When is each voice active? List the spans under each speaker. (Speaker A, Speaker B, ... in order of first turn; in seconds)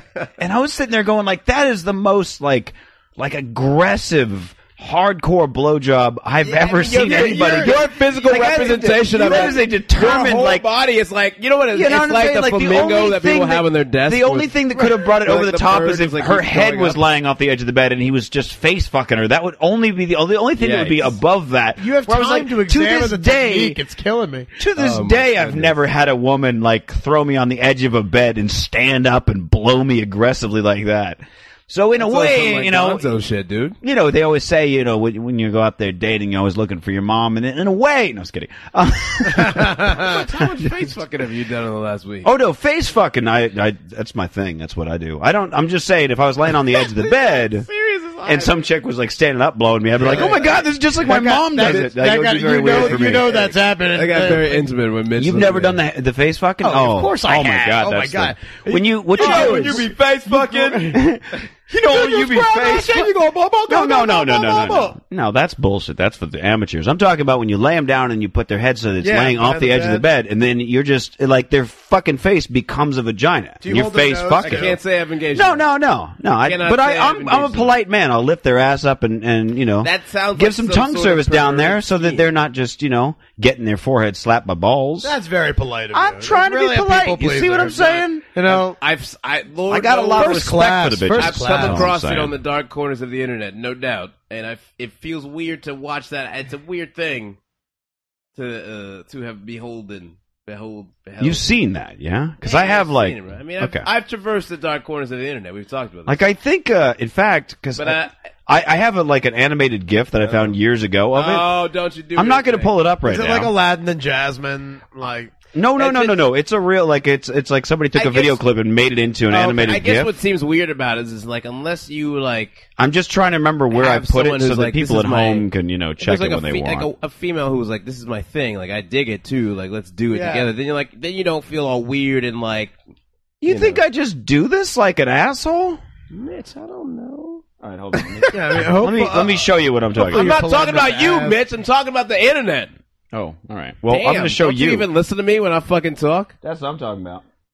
Speaker A: 0.4-10.7, 11.7-23.8, 24.6-33.0, 33.8-41.0, 42.2-47.7, 48.2-53.5, 55.2-63.1, 63.7-74.8, 75.3-85.2, 85.9-88.3, 89.7-92.3, 101.2-103.9, 106.1-111.5, 112.2-113.5, 115.5-120.1, 122.8-126.9, 133.4-135.8, 137.6-140.4, 143.1-144.9, 146.4-147.2
Speaker B: 6.4-17.0, 20.6-21.2, 24.8-25.8, 32.0-33.8, 39.4-42.3, 47.0-48.5, 50.0-50.5, 52.6-55.8, 59.2-60.9, 74.4-75.7, 76.4-77.8, 79.8-82.3, 88.0-97.4, 98.3-101.5, 102.4-106.2, 107.8-108.1, 110.2-110.5, 111.1-112.7, 115.8-116.2, 118.0-118.4, 119.3-122.7, 123.7-125.5, 126.0-132.8, 133.5-133.8, 136.1-138.4, 140.0-142.7, 143.9-146.3
Speaker C: 7.0-7.8, 9.2-9.6, 21.8-24.5, 50.0-54.7, 56.6-61.0, 61.8-65.0, 69.0-70.0, 73.6-74.8, 85.0-88.8, 90.1-91.9, 113.1-115.4, 130.1-130.5, 138.3-139.4, 140.0-141.4